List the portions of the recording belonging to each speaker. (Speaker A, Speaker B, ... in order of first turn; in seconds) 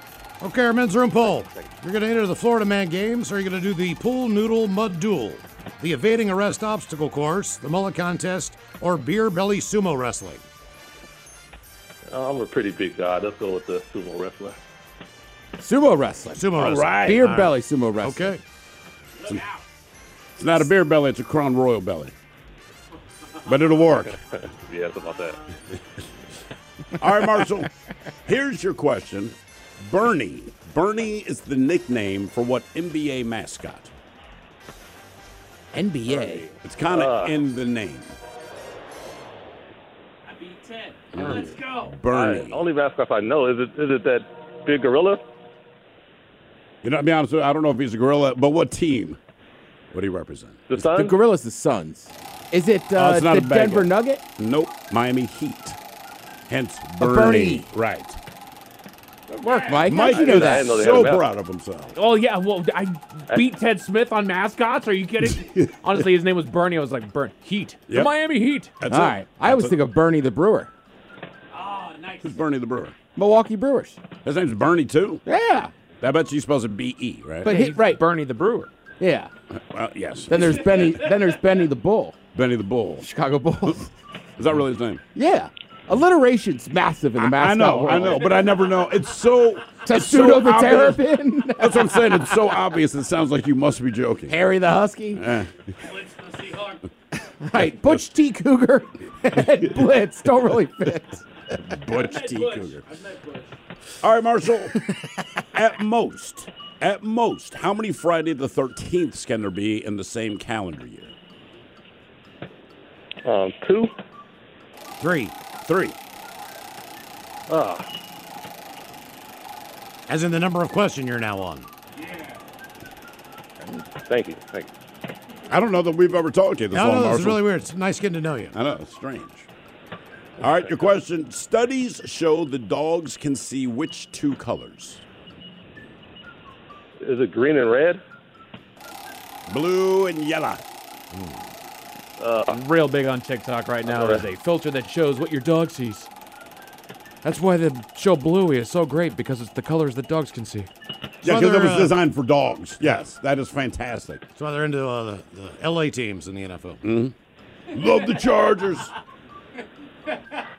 Speaker A: 0.4-10.4, 16.3-18.4, 115.0-115.3, 120.1-121.7, 126.7-128.6, 151.2-152.0, 154.3-156.8
Speaker B: 12.1-14.6, 24.4-25.4, 36.9-37.4, 42.1-45.2, 50.7-51.1, 60.2-61.2, 113.2-113.9, 117.5-117.9, 124.0-124.7, 137.0-138.0, 142.2-142.6, 143.8-144.2
Speaker C: 15.6-16.5, 17.0-18.3, 35.7-36.5, 50.9-54.2, 57.0-57.7, 59.4-61.0, 68.9-70.7, 73.1-74.0, 75.2-75.7, 77.4-78.0, 79.0-79.3, 80.3-82.2, 83.0-83.9, 85.1-88.3, 89.8-92.6, 94.3-95.2, 97.4-101.2
Speaker D: 16.5-17.3, 20.4-22.1, 23.4-24.2, 27.0-27.7, 28.2-33.9, 36.6-38.2, 41.1-42.7, 46.8-49.2, 49.9-51.0, 53.0-55.8, 56.5-58.2, 59.3-62.0, 65.6-65.9, 67.9-68.2, 68.8-69.8, 72.0-73.0, 74.2-75.2, 76.0-77.5, 79.5-80.5, 82.3-83.1, 84.4-85.0, 87.2-91.0, 91.6-94.4, 95.1-95.5, 101.7-102.8, 104.0-104.8, 105.5-111.1, 115.5-116.0, 125.5-127.4, 128.5-129.5, 130.4-135.0, 139.5-140.6, 151.2-154.2, 156.8-157.1, 157.7-158.9
Speaker E: 62.0-68.7, 77.5-78.7, 142.6-146.1, 147.2-150.7